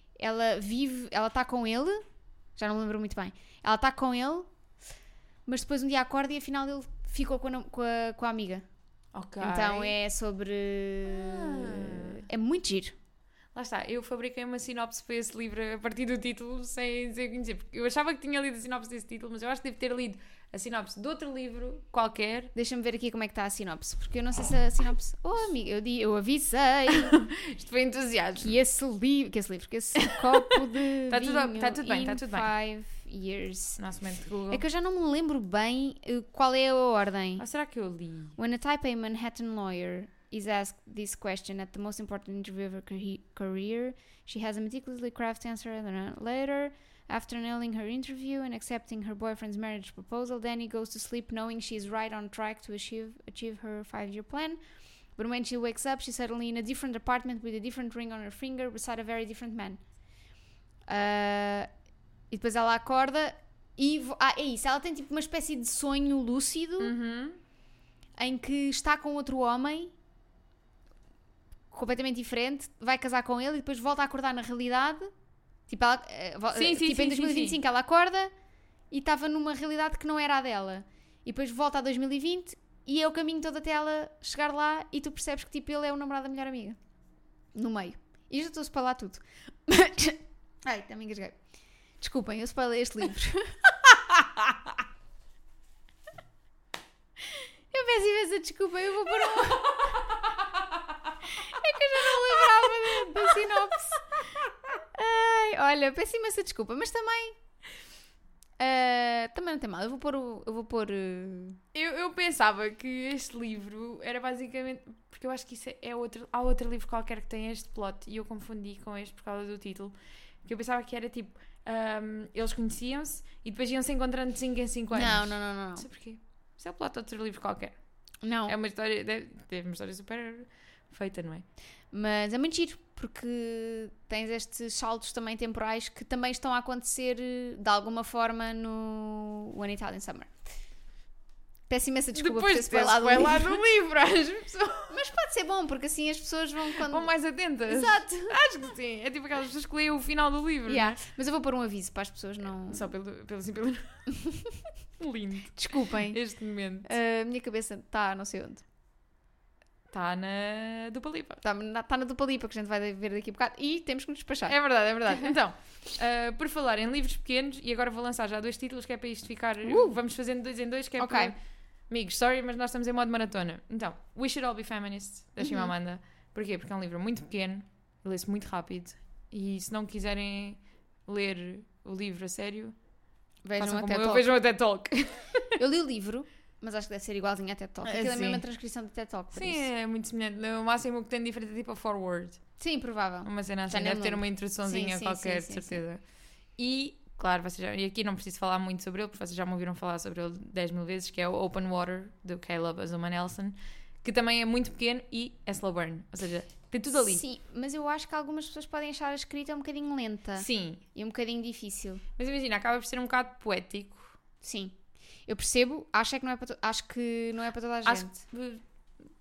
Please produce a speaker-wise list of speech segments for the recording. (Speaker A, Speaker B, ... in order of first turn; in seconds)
Speaker A: 0.2-2.0, 2.6-4.5, 5.5-8.6, 9.4-12.9, 22.5-27.2, 28.4-33.8, 34.5-37.4, 38.4-54.6, 55.2-59.8, 60.9-61.7, 62.3-66.9, 68.2-69.9, 71.7-75.1, 75.7-78.3, 78.9-86.8, 87.5-91.4, 92.0-93.6, 97.7-100.1, 101.2-104.1, 104.9-107.3, 108.6-111.6, 124.9-125.8, 128.2-128.5, 131.9-140.3, 141.7-143.6, 144.9-147.1, 147.7-148.4, 150.7-152.9, 154.1-154.6, 155.6-156.2, 156.8-158.6, 161.4-165.3, 169.6-170.0, 171.0-171.3, 175.4-175.7, 183.4-184.3, 185.6-189.7, 192.6-195.8, 206.9-212.0, 214.4-214.7, 215.3-218.2
Speaker B: 9.1-9.9, 11.0-12.2, 13.5-22.5, 26.9-28.5, 30.1-32.5, 33.8-34.6, 37.4-38.3, 66.8-67.4, 76.5-77.6, 102.1-103.5, 111.7-127.8, 128.4-131.4, 142.1-145.0, 146.7-151.0, 152.7-153.9, 155.0-156.9, 159.9-161.4, 164.5-171.4, 171.9-182.7, 183.6-185.6, 187.8-188.4, 189.3-192.4, 193.2-196.0, 196.6-207.2, 210.3-210.8, 212.2-214.1, 217.8-218.6